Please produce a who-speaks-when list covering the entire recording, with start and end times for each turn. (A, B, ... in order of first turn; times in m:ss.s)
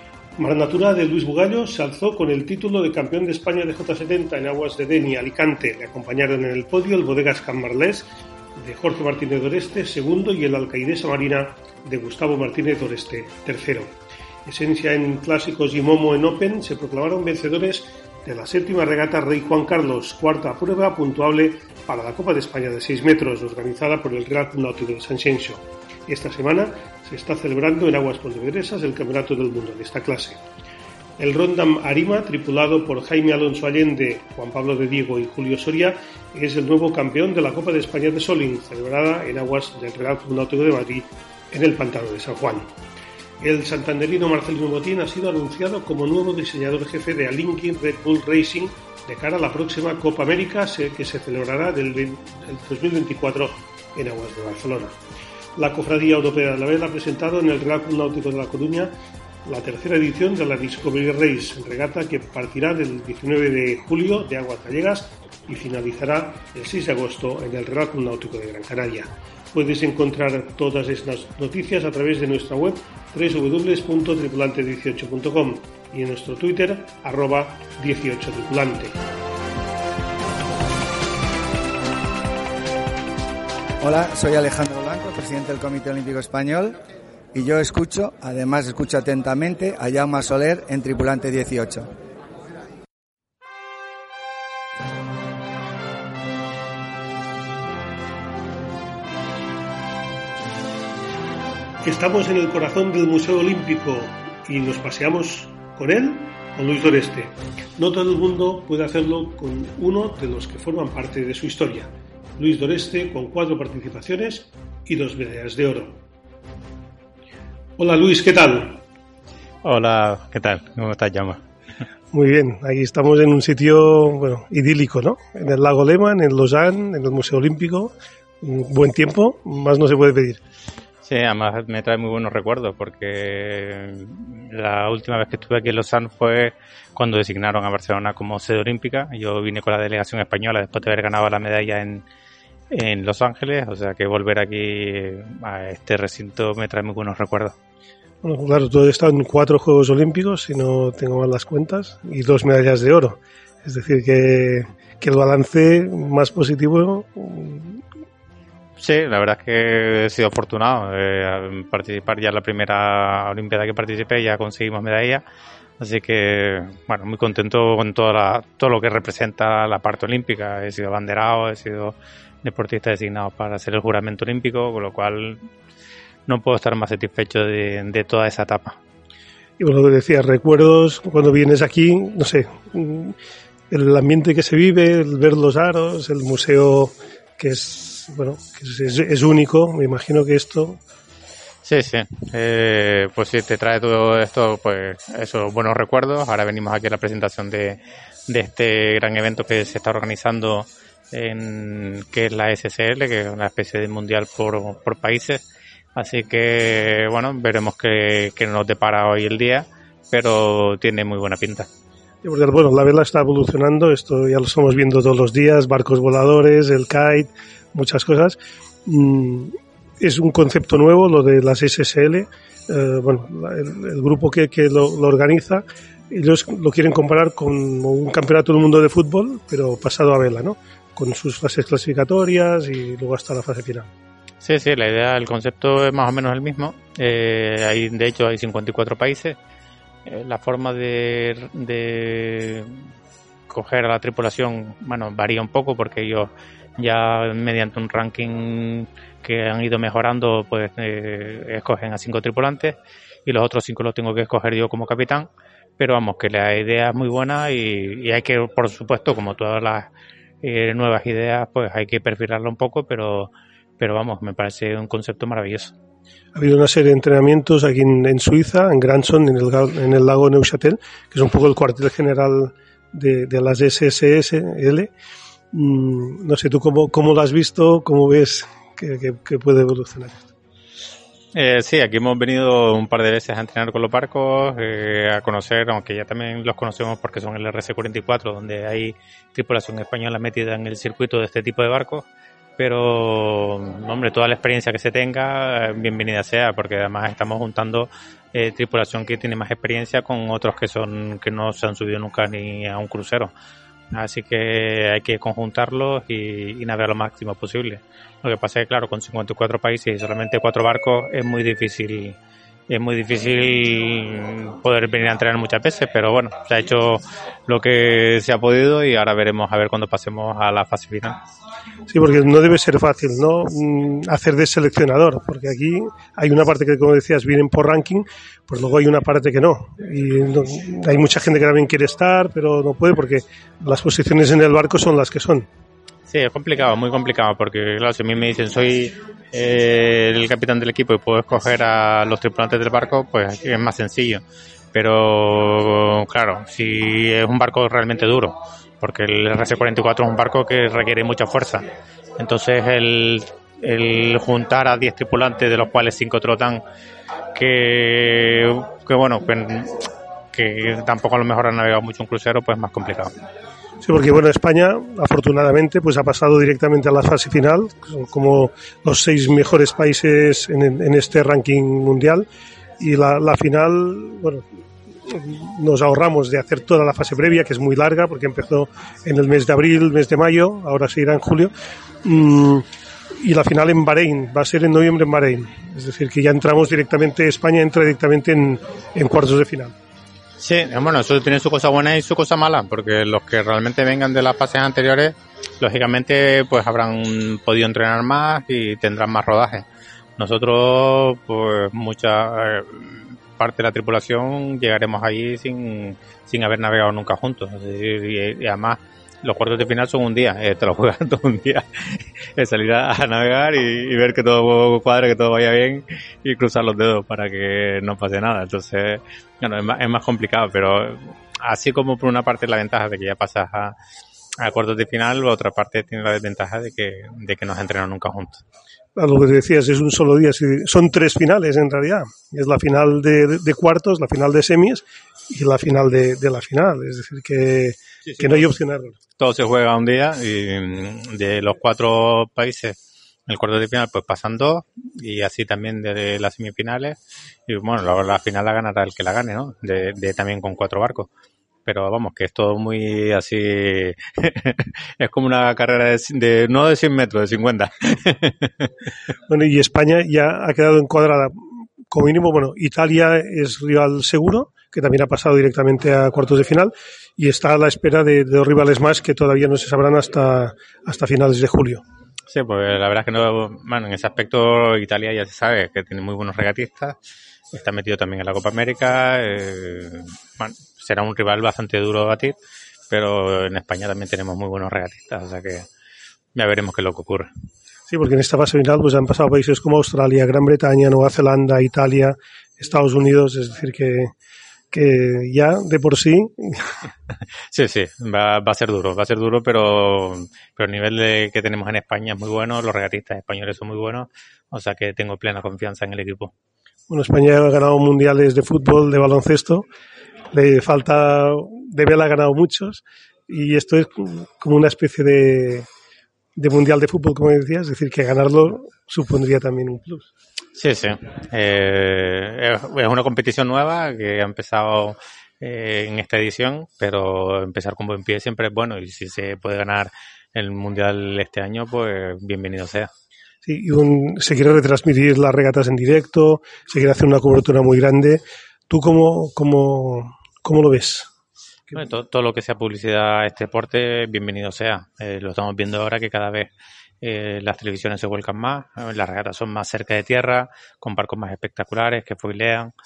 0:00.4-0:30.4 A
0:31.2-0:42.7 A
0:43.4-0:55.0 A
0:55.6-0:58.9 A
0:59.4-1:19.0 A
1:23.8-1:26.8 B
1:27.3-1:31.9 B
1:41.8-1:56.0 A
1:57.8-1:58.8 A
1:59.6-2:01.4 C
2:02.1-2:10.4 A
2:11.0-2:22.0 C
2:22.7-2:27.6 C
2:28.2-2:37.8 A
2:38.8-2:45.2 C
2:45.8-2:55.5 C
2:56.3-2:58.8 C
2:59.6-3:03.2 A
3:03.7-3:10.8 A
3:11.6-3:25.4 C
3:26.0-3:31.7 C
3:32.2-3:53.9 A
3:54.4-3:59.4 C
4:00.1-4:02.8 C
4:03.5-4:15.3 C
4:15.8-4:19.9 C
4:20.4-4:25.7 C
4:26.4-4:34.9 A
4:35.5-4:40.3 A
4:41.3-4:52.1 C
4:52.6-5:03.3 C
5:03.9-5:12.2 C
5:12.7-5:21.2 C
5:21.9-5:35.5 A
5:36.1-5:51.7 C
5:52.2-5:56.6 C
5:57.4-6:03.1 C
6:03.8-6:12.3 A
6:12.8-6:14.5 A
6:15.0-6:21.5 A
6:22.0-6:22.7 A
6:23.2-6:29.8 A
6:30.4-6:39.6 C
6:40.2-7:03.8 C
7:04.4-7:08.4 C
7:09.0-7:19.0 A
7:19.2-7:22.8 C
7:23.3-7:31.1 C
7:31.7-7:38.7 C
7:39.3-7:51.8 A
7:52.3-7:57.0 C
7:57.5-8:02.4 C
8:02.9-8:05.7 C
8:06.4-8:07.3 C
8:07.9-8:14.1 A
8:14.7-8:16.7 A
8:17.5-8:26.3 C
8:26.9-8:29.7 A
8:30.3-8:35.7 A
8:36.4-8:40.1 A
8:40.6-8:52.9 C
8:53.4-9:01.1 A
9:01.7-9:06.5 C
9:07.0-9:12.7 C